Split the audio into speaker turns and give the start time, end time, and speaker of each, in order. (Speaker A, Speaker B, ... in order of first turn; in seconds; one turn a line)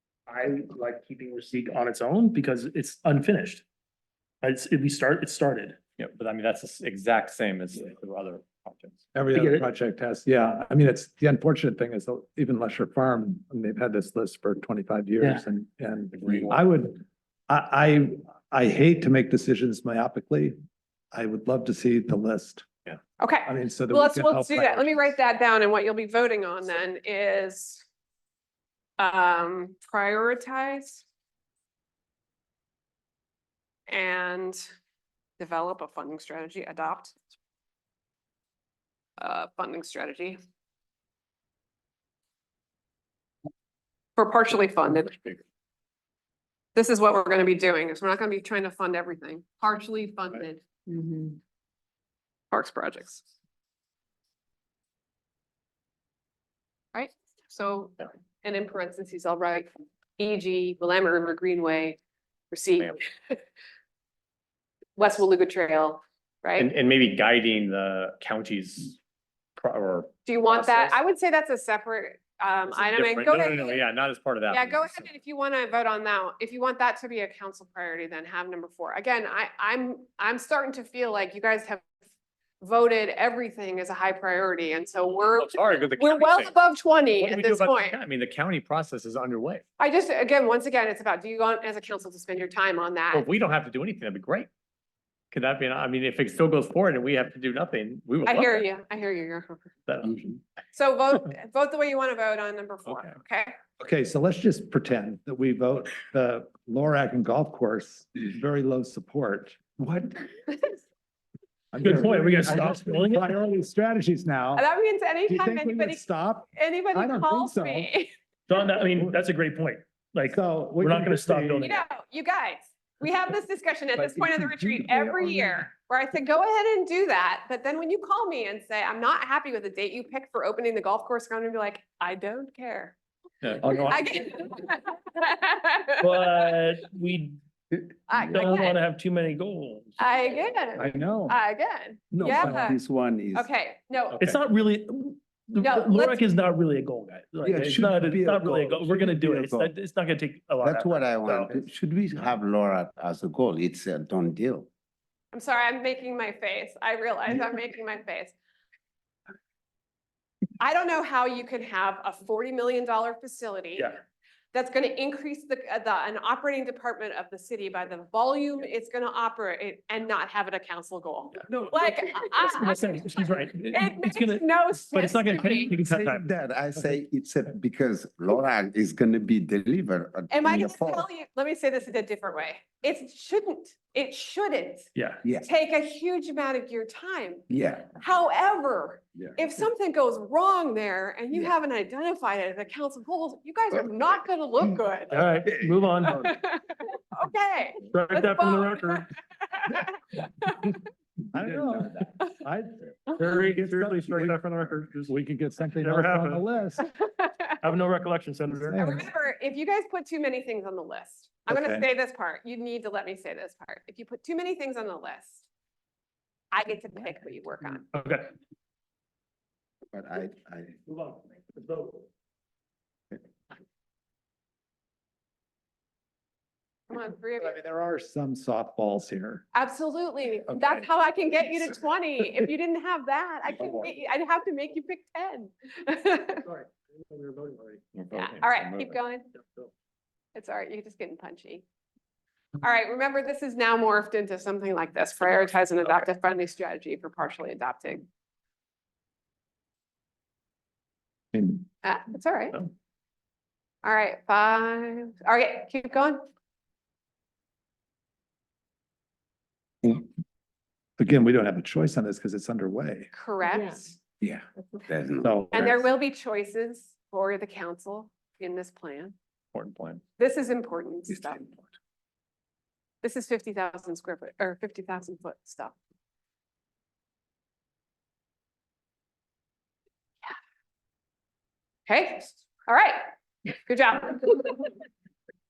Speaker A: 0.3-3.6
Speaker A: 4.4-5.8
Speaker B: 6.0-9.1
Speaker C: 9.1-20.6
Speaker A: 9.3-9.7
Speaker B: 16.2-16.6
Speaker C: 21.1-22.7
Speaker D: 23.2-27.8
Speaker C: 23.5-25.1
Speaker D: 29.0-31.1
Speaker D: 33.9-34.6
Speaker D: 35.4-37.1
Speaker D: 39.2-40.4
Speaker D: 44.2-45.4
Speaker D: 46.7-51.3
Speaker D: 52.5-53.2
Speaker D: 56.9-62.0
Speaker D: 62.5-63.4
Speaker D: 65.0-66.7
Speaker B: 66.6-69.0
Speaker B: 69.6-71.0
Speaker D: 70.2-73.8
Speaker B: 72.7-75.1
Speaker D: 74.5-81.8
Speaker D: 82.6-88.0
Speaker B: 85.3-86.5
Speaker B: 87.1-89.6
Speaker D: 89.8-93.3
Speaker B: 93.1-94.5
Speaker B: 95.3-98.7
Speaker D: 98.2-99.7
Speaker B: 99.9-100.2
Speaker D: 100.7-103.5
Speaker B: 102.9-103.2
Speaker C: 103.8-110.0
Speaker C: 111.7-114.6
Speaker A: 111.8-113.3
Speaker D: 114.5-118.1
Speaker C: 115.3-117.9
Speaker A: 118.5-121.9
Speaker C: 120.3-121.7
Speaker D: 121.6-133.0
Speaker C: 124.7-125.5
Speaker B: 133.4-134.0
Speaker C: 133.6-134.0
Speaker D: 133.7-136.1
Speaker A: 136.0-137.4
Speaker D: 138.1-138.8
Speaker A: 138.3-140.0
Speaker D: 140.0-142.8
Speaker C: 140.8-141.4
Speaker E: 142.1-143.5
Speaker C: 142.4-142.7
Speaker D: 143.3-144.2
Speaker A: 144.2-151.5
Speaker D: 145.6-146.2
Speaker E: 147.4-149.7
Speaker E: 150.6-154.7
Speaker D: 155.3-158.3
Speaker D: 160.6-163.9
Speaker D: 164.5-175.7
Speaker A: 171.5-176.3
Speaker E: 175.7-181.1
Speaker D: 180.3-195.2
Speaker A: 184.9-185.2
Speaker E: 187.5-188.0
Speaker E: 189.2-189.5
Speaker A: 195.1-196.2
Speaker E: 195.2-196.2
Speaker D: 196.1-200.8
Speaker A: 197.9-199.1
Speaker C: 201.3-204.4
Speaker E: 201.5-202.0
Speaker A: 203.1-205.1
Speaker C: 205.1-206.9
Speaker A: 205.8-206.4
Speaker D: 206.8-207.5
Speaker A: 207.6-208.8
Speaker C: 208.5-209.1
Speaker D: 208.8-215.5
Speaker C: 211.5-211.8
Speaker D: 216.5-217.9
Speaker A: 217.9-218.3
Speaker E: 219.9-220.8
Speaker A: 220.9-222.1
Speaker D: 226.9-227.6
Speaker C: 227.4-229.5
Speaker D: 229.5-236.4
Speaker C: 230.5-230.8
Speaker A: 236.4-237.8
Speaker B: 237.9-239.0
Speaker D: 238.1-239.3
Speaker A: 239.3-239.7
Speaker D: 240.3-241.6
Speaker D: 242.6-248.1
Speaker C: 251.3-251.6
Speaker D: 251.8-252.6
Speaker D: 253.8-256.2
Speaker C: 261.0-263.1
Speaker D: 263.1-264.0
Speaker E: 264.2-265.3
Speaker C: 265.2-265.9
Speaker D: 265.5-269.1
Speaker B: 269.5-270.0
Speaker D: 270.2-271.4
Speaker E: 271.1-271.4
Speaker D: 273.0-275.8
Speaker D: 281.9-284.7